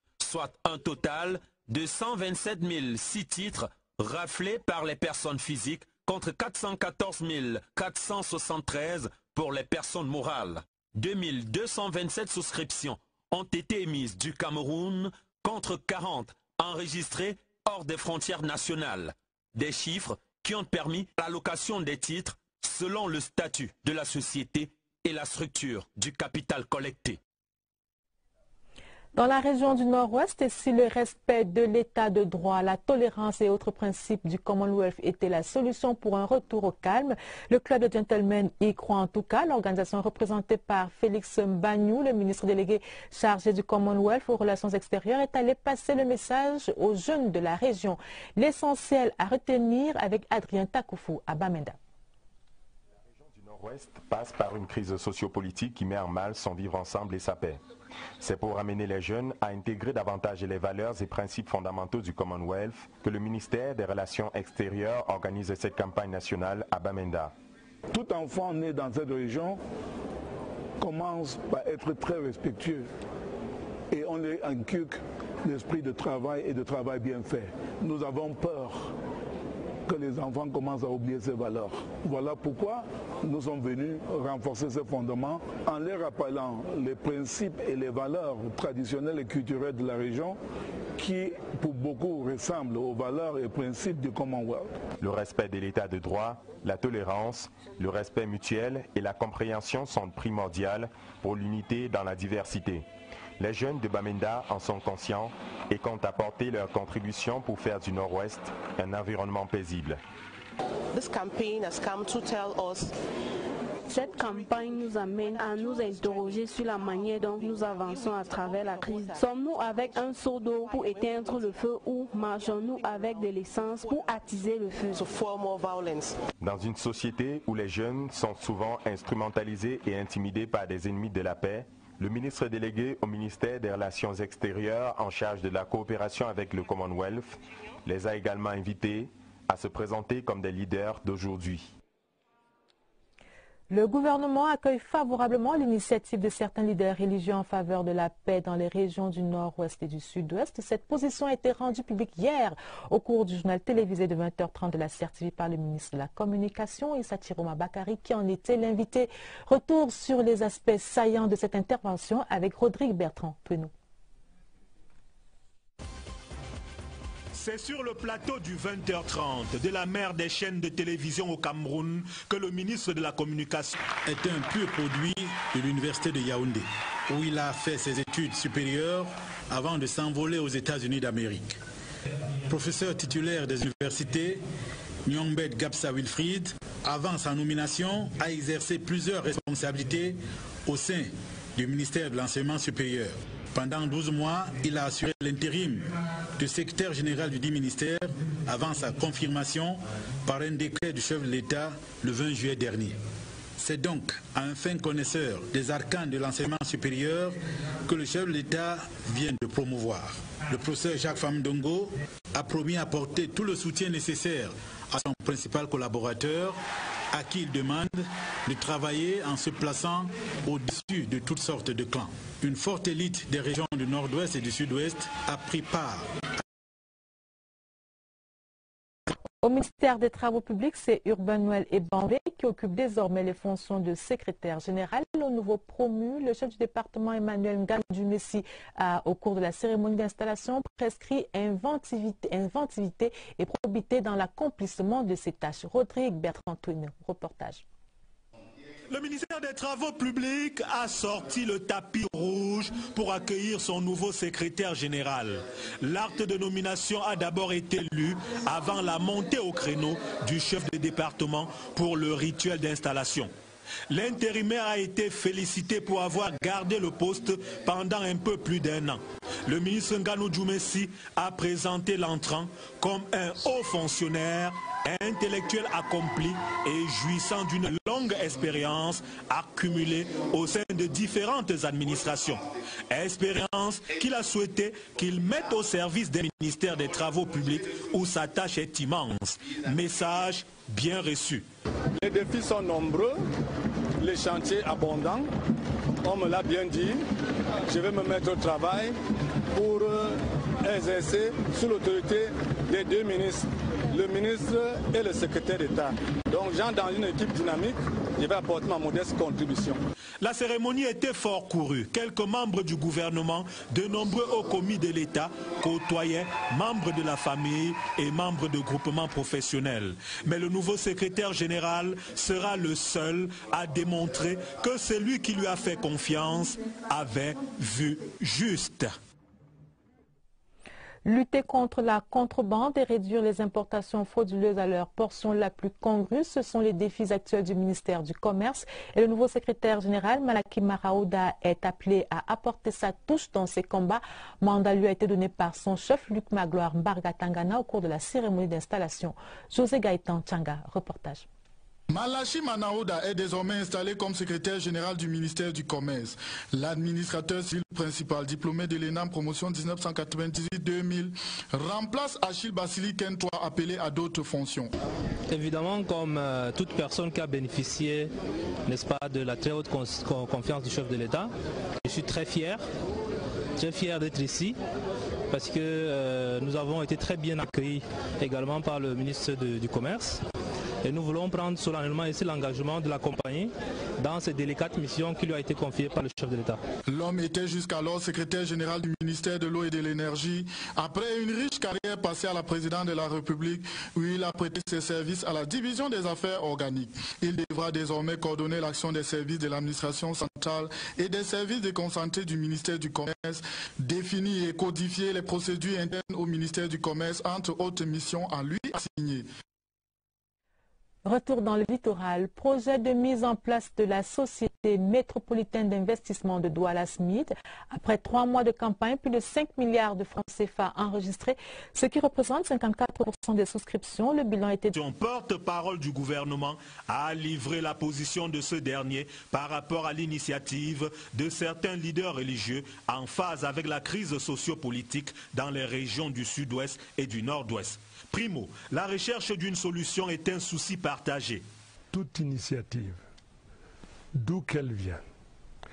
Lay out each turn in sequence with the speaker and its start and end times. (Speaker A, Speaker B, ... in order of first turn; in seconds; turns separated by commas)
Speaker A: 0.2-27.2, Speaker B: 29.1-51.8, Speaker C: 53.2-57.6, Speaker C: 58.2-67.3, Speaker D: 67.9-69.6, Speaker D: 70.8-72.9, Speaker D: 73.9-78.9, Speaker D: 79.9-90.4, Speaker D: 91.0-94.8, Speaker C: 95.0-102.8, Speaker C: 103.4-110.0, Speaker E: 110.9-112.9, Speaker E: 118.7-119.1, Speaker E: 124.9-126.2, Speaker C: 126.4-141.7, Speaker B: 143.7-163.7, Speaker F: 167.3-173.8, Speaker G: 174.1-181.6, Speaker G: 182.5-184.4, Speaker G: 185.1-203.0, Speaker G: 203.6-216.6, Speaker G: 217.1-226.1, Speaker B: 229.4-247.6, Speaker F: 248.9-263.3, Speaker F: 263.9-291.4, Speaker H: 292.0-293.2, Speaker H: 294.0-295.3, Speaker H: 296.0-297.0, Speaker H: 297.7-299.0, Speaker H: 299.5-309.8, Speaker F: 310.2-328.9, Speaker B: 331.1-351.3, Speaker I: 351.9-364.7, Speaker J: 365.3-368.1, Speaker J: 368.7-371.3, Speaker J: 371.8-372.6, Speaker J: 373.6-374.6, Speaker J: 375.3-380.2, Speaker J: 380.8-386.6, Speaker I: 386.9-409.3, Speaker B: 411.1-424.7, Speaker F: 424.7-441.4, Speaker K: 441.9-443.0, Speaker K: 444.2-445.0